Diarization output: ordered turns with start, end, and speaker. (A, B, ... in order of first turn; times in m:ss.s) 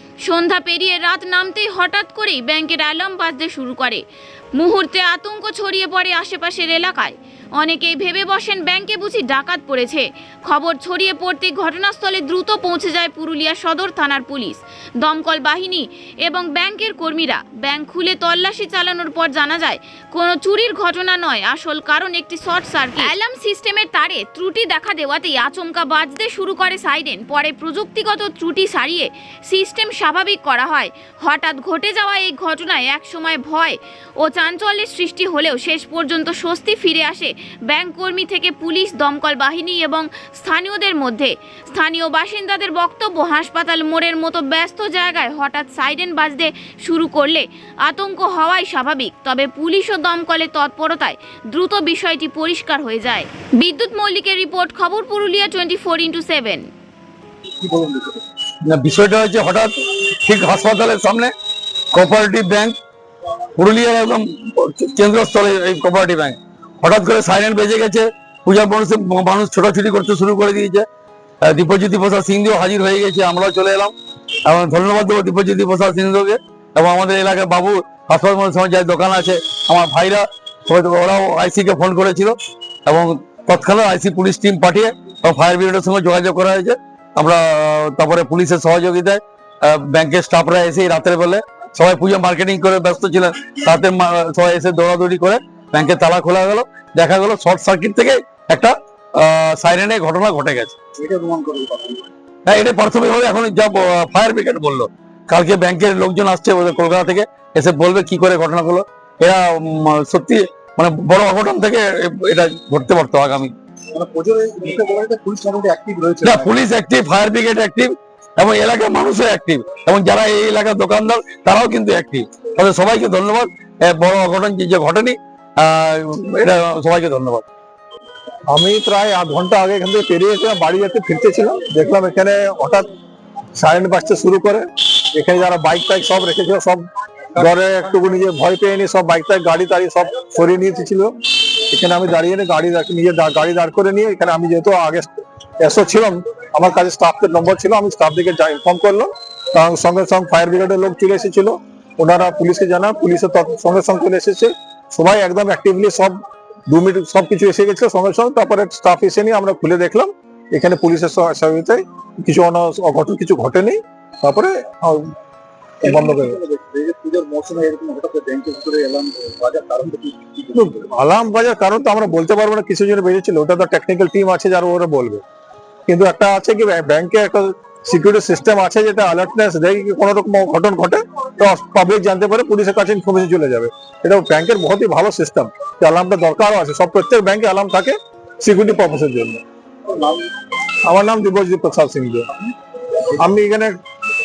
0:00.2-0:04.0 A
0:04.5-0:56.7 A
0:57.6-0:58.2 B
0:58.7-1:01.3 C
1:01.9-1:02.8 C
1:03.6-1:10.9 C
1:11.4-1:13.9 C
1:14.5-1:22.4 C
1:22.9-1:40.8 C
1:41.0-1:42.0 B
1:42.5-1:53.5 C
1:53.9-1:56.6 B
1:56.2-2:07.5 C
2:08.5-2:12.9 D
2:13.6-2:45.2 D
2:45.8-2:46.4 D
2:45.8-2:50.8 B
2:50.6-2:55.2 D
2:55.9-3:09.4 D
3:10.9-3:12.3 D
3:13.2-3:13.8 D